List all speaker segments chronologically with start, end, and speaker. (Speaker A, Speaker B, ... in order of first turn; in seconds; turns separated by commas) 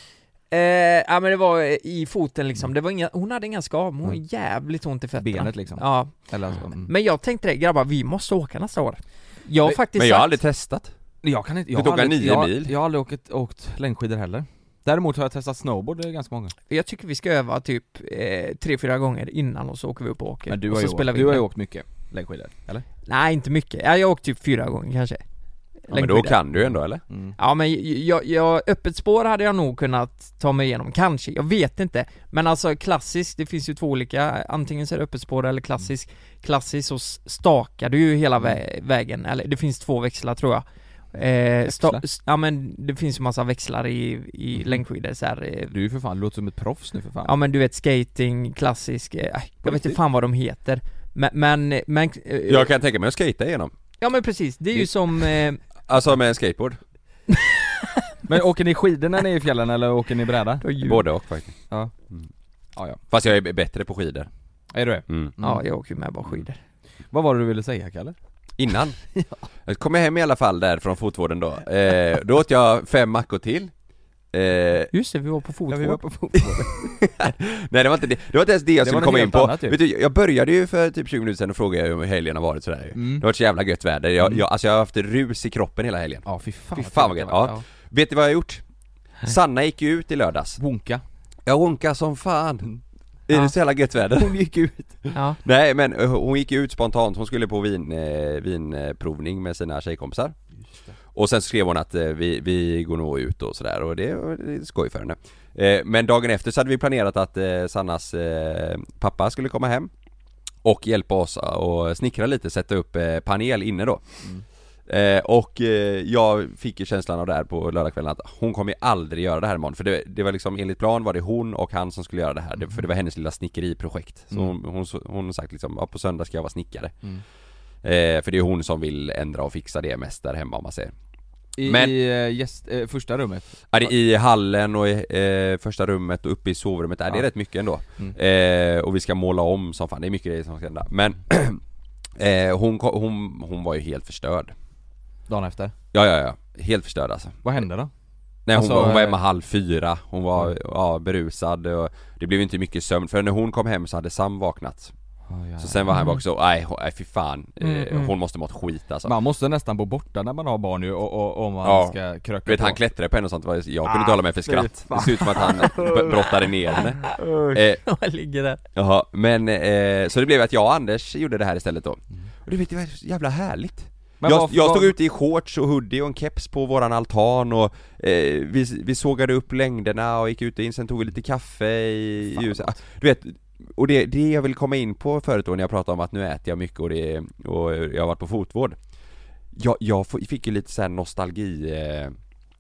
Speaker A: 0.5-6.1, Speaker B: 5.2-6.9, Speaker A: 6.8-10.4, Speaker C: 9.7-10.9, Speaker B: 11.2-16.5, Speaker C: 11.7-12.8, Speaker A: 16.7-21.5, Speaker B: 20.5-22.9, Speaker A: 23.1-25.2, Speaker A: 25.9-26.4, Speaker C: 25.9-27.0, Speaker B: 27.1-27.4, Speaker A: 27.4-45.7, Speaker B: 41.6-42.0, Speaker B: 44.5-44.8, Speaker B: 45.7-47.3, Speaker A: 47.3-52.7, Speaker B: 49.6-50.0, Speaker C: 52.5-53.7, Speaker A: 54.0-55.6, Speaker C: 55.9-56.8, Speaker A: 57.3-57.6, Speaker B: 58.3-60.7, Speaker A: 60.6-61.0, Speaker C: 60.8-61.6, Speaker C: 63.1-64.3, Speaker B: 64.7-65.6, Speaker C: 65.1-65.3, Speaker A: 65.4-66.6, Speaker B: 67.1-68.2, Speaker C: 68.6-69.0, Speaker B: 69.2-69.4, Speaker C: 69.7-73.7, Speaker C: 74.3-74.9, Speaker A: 74.9-76.0, Speaker B: 75.7-76.7, Speaker C: 76.5-88.6, Speaker B: 78.8-79.8, Speaker B: 83.0-83.3, Speaker B: 86.3-87.6, Speaker C: 89.2-90.6, Speaker B: 90.6-91.0, Speaker C: 91.5-92.7, Speaker C: 93.3-94.4, Speaker B: 94.1-95.0, Speaker A: 95.1-95.4, Speaker C: 95.4-100.4, Speaker C: 101.2-109.9, Speaker C: 110.6-114.0, Speaker C: 114.9-126.9, Speaker C: 127.8-130.9, Speaker B: 131.6-133.9, Speaker C: 131.7-132.0, Speaker C: 133.7-141.6, Speaker C: 142.2-144.5, Speaker B: 145.3-145.7, Speaker C: 145.9-147.4, Speaker B: 147.4-147.9, Speaker C: 148.5-154.9, Speaker B: 148.5-149.2, Speaker B: 155.3-156.1, Speaker C: 155.6-159.1, Speaker A: 155.9-156.2, Speaker A: 157.6-158.1, Speaker B: 159.1-162.8, Speaker C: 161.6-167.8, Speaker B: 163.9-167.6, Speaker A: 167.8-168.6, Speaker C: 168.8-188.8, Speaker B: 174.2-174.9, Speaker B: 182.3-182.8, Speaker C: 189.5-192.2